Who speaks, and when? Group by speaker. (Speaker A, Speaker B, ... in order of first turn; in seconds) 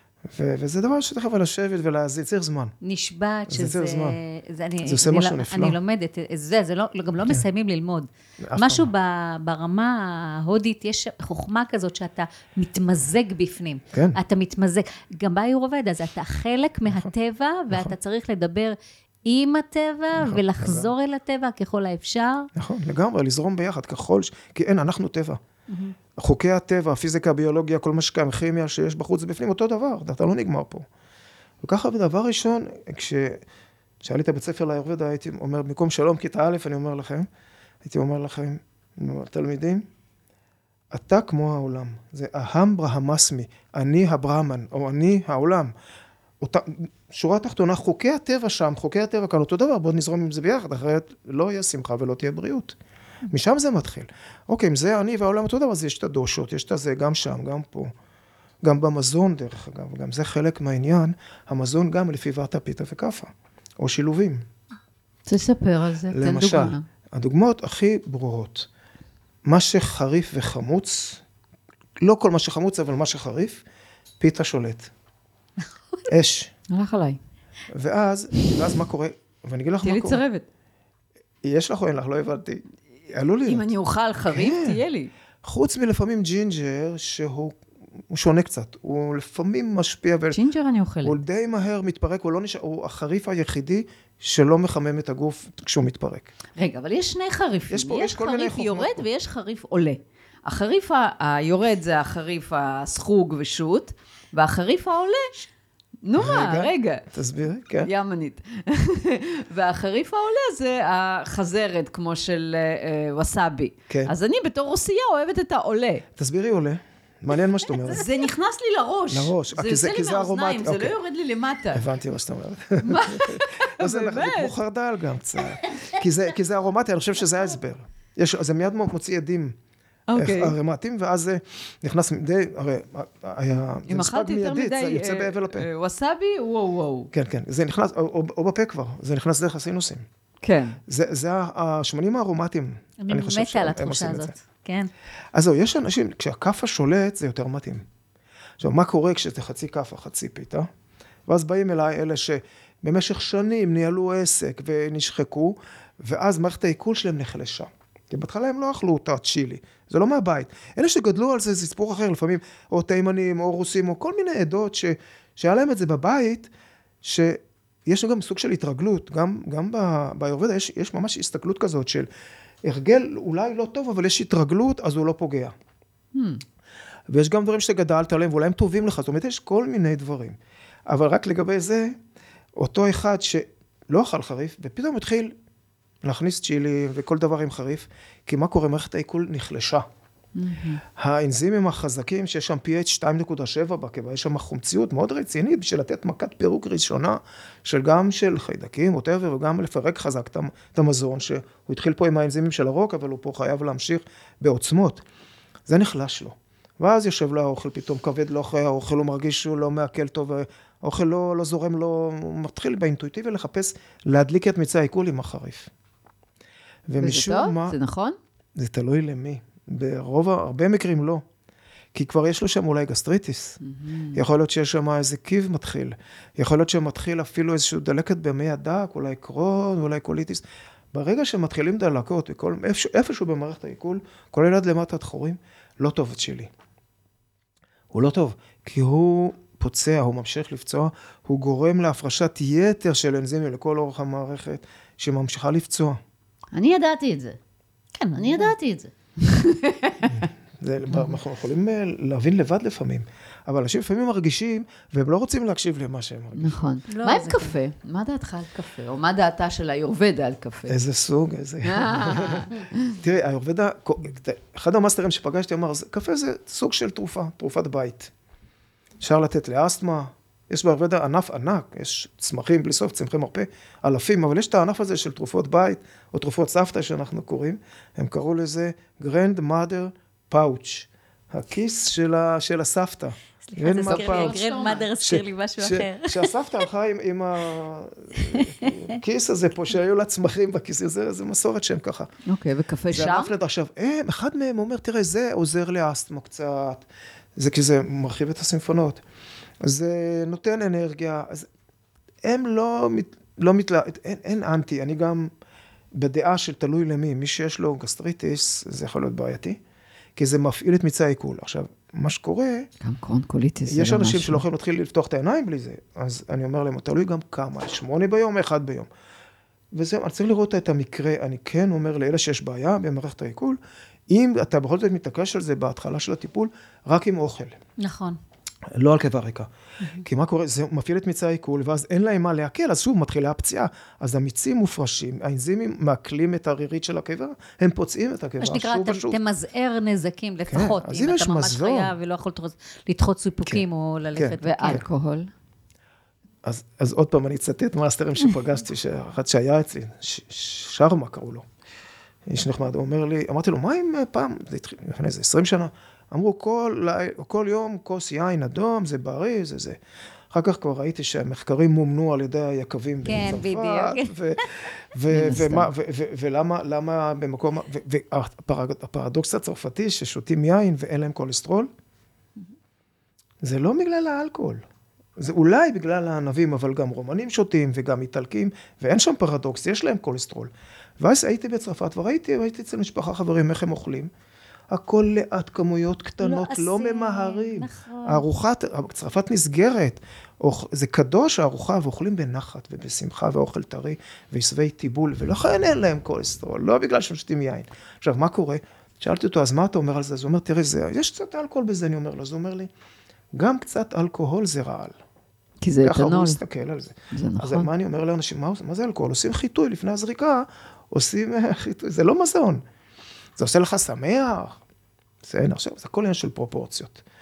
Speaker A: 0.3-2.7, 3.5-4.2, 4.8-5.8, 8.4-8.9, 13.9-14.2, 20.1-20.9, 22.5-25.4, 26.1-30.9, 31.6-33.4, 34.0-37.3, 37.8-39.8, 40.9-45.7, 46.4-52.8, 53.3-57.9, 58.6-64.5, 66.1-68.7, 69.4-71.2, 72.0-73.6, 74.2-74.9, 76.1-76.5, 77.7-80.2, 81.4-83.7, 84.2-84.8, 85.4-87.6, 88.1-90.4, 91.0-96.3, 97.7-99.1, 106.2-107.9, 113.9-114.1, 116.2-118.0, 119.1-120.9, 121.7-129.6, 130.2-135.7, 137.1-140.0, 140.9-144.3, 145.3-147.8, 148.6-150.7, 151.3-166.5, 167.0-172.1, 172.6-175.5, 177.1-182.0, 182.6-185.3, 186.0-189.9, 190.9-205.0, 205.7-215.7, 216.9-217.8, 218.6-221.2, 221.9-223.6, 224.1-236.5, 237.9-246.0, 250.1-256.6, 260.7-268.1, 269.0-292.1, 292.9-296.8, 297.4-299.0, 299.6-301.5, 302.2-305.3, 305.9-309.6, 310.1-312.7, 313.7-318.9, 319.7-323.6, 324.1-327.6, 328.7-329.5, 330.0-339.2, 340.5-341.9, 344.1-344.8, 346.4-351.4, 352.3-359.8, 360.3-371.7, 373.4-374.6, 375.2-384.1, 384.7-402.7, 403.3-404.9, 405.8-412.6, 413.4-414.6, 415.2-417.0
Speaker B: 2.8-22.5, 25.7-25.9, 143.0-144.9, 247.9-248.5, 256.9-257.6, 283.5-286.6, 288.2-288.9, 327.8-328.2, 338.4-344.8, 363.1-364.1, 386.2-388.3
Speaker C: 65.2-66.8, 76.7-77.2, 79.8-80.5, 83.4-85.1, 90.3-91.2, 96.5-105.5, 106.0-107.0, 107.8-116.0, 117.8-121.9, 122.8-124.5, 130.1-130.6, 133.9-137.1, 140.4-140.8, 176.1-176.4, 190.3-190.8, 217.0-218.2, 223.6-224.2, 246.5-247.4, 248.2-250.3, 256.3-260.8, 261.6-263.0, 283.8-284.9, 292.2-293.3, 312.8-314.4, 344.4-345.3, 365.1-365.7, 405.6-406.4, 407.1-407.7